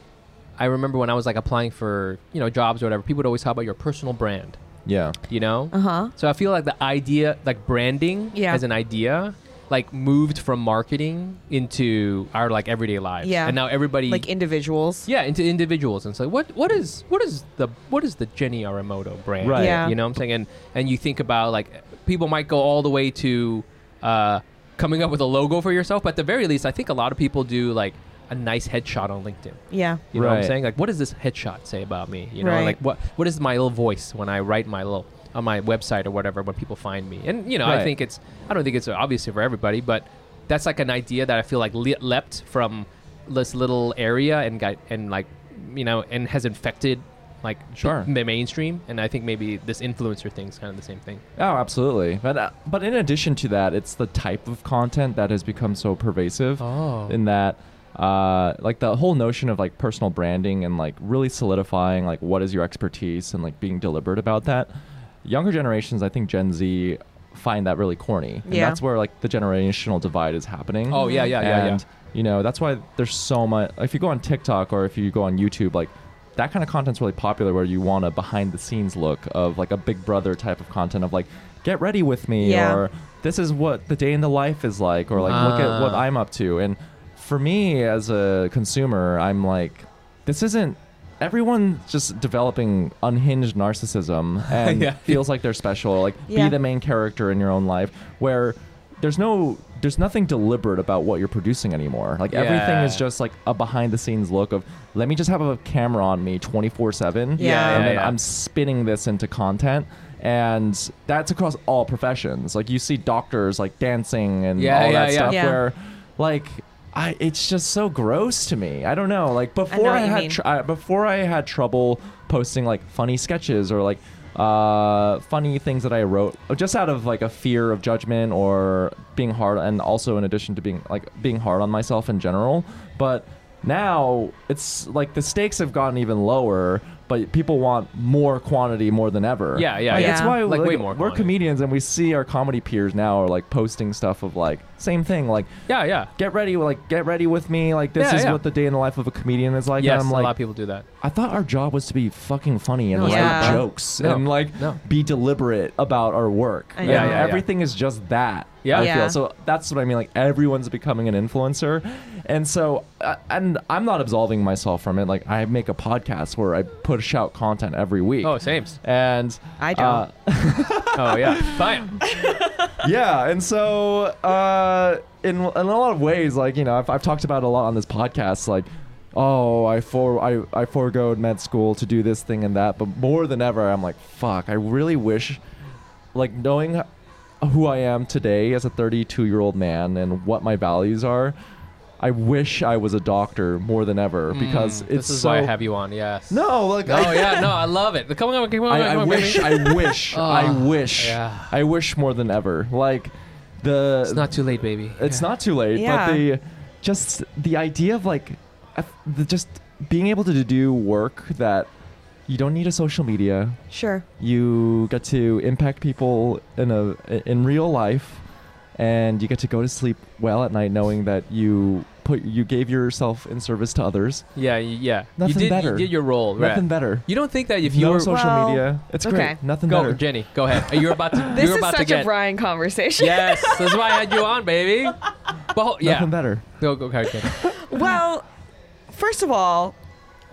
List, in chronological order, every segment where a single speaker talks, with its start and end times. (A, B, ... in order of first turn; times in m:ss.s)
0:00.6-0:04.6 A
0:04.9-0:05.2 B
0:05.3-0:14.3 A
0:05.7-0:06.1 C
0:08.3-0:08.6 C
0:13.2-0:15.1 C
0:15.1-0:51.2 A
0:19.4-0:19.9 B
0:19.6-0:20.0 C
0:29.7-0:30.0 C
0:30.1-0:30.6 B
0:32.4-0:32.8 C
0:37.6-0:37.9 B
0:47.8-0:48.1 B
0:51.4-1:04.7 B
0:56.6-0:57.2 A
1:05.2-2:25.5 B
1:08.5-1:08.8 C
1:10.9-1:11.8 A
1:10.9-1:11.3 C
1:22.4-1:22.8 C
1:25.2-1:26.1 A
1:34.5-1:35.2 A
1:36.3-1:36.6 C
1:42.3-1:43.0 A
1:47.4-1:47.9 C
1:47.4-1:48.2 A
1:54.6-1:55.4 A
1:55.3-1:55.6 C
1:59.7-2:00.4 C
2:19.6-2:21.3 A
2:19.9-2:20.4 C
2:25.7-2:26.1 A
2:26.2-2:30.4 B
2:28.0-2:28.4 A
2:29.8-2:30.8 A
2:31.0-2:51.8 B
2:33.0-2:33.6 C
2:33.0-2:34.8 A
2:36.8-2:37.3 C
2:36.8-2:37.5 A
2:38.6-2:38.9 A
2:38.7-2:39.2 C
2:48.2-2:48.8 A
2:49.6-2:50.0 C
2:51.0-2:52.0 A
2:52.0-2:52.8 C
2:52.8-3:05.4 B
3:06.1-3:06.9 B
3:07.4-3:11.4 B
3:12.0-3:15.5 B
3:14.3-3:21.5 A
3:16.3-3:17.6 B
3:18.7-3:24.4 B
3:24.0-3:25.3 A
3:24.9-3:31.7 B
3:25.7-3:26.2 C
3:32.3-3:33.6 B
3:33.7-3:34.0 C
3:34.2-3:38.2 B
3:38.8-3:44.3 B
3:44.4-3:48.1 A
3:45.2-3:47.1 B
3:47.6-3:51.3 B
3:48.1-3:49.4 C
3:49.7-3:52.1 A
3:51.3-3:53.9 C
3:53.0-3:57.4 A
3:55.8-3:56.4 B
3:57.4-3:58.3 C
3:58.9-3:59.8 C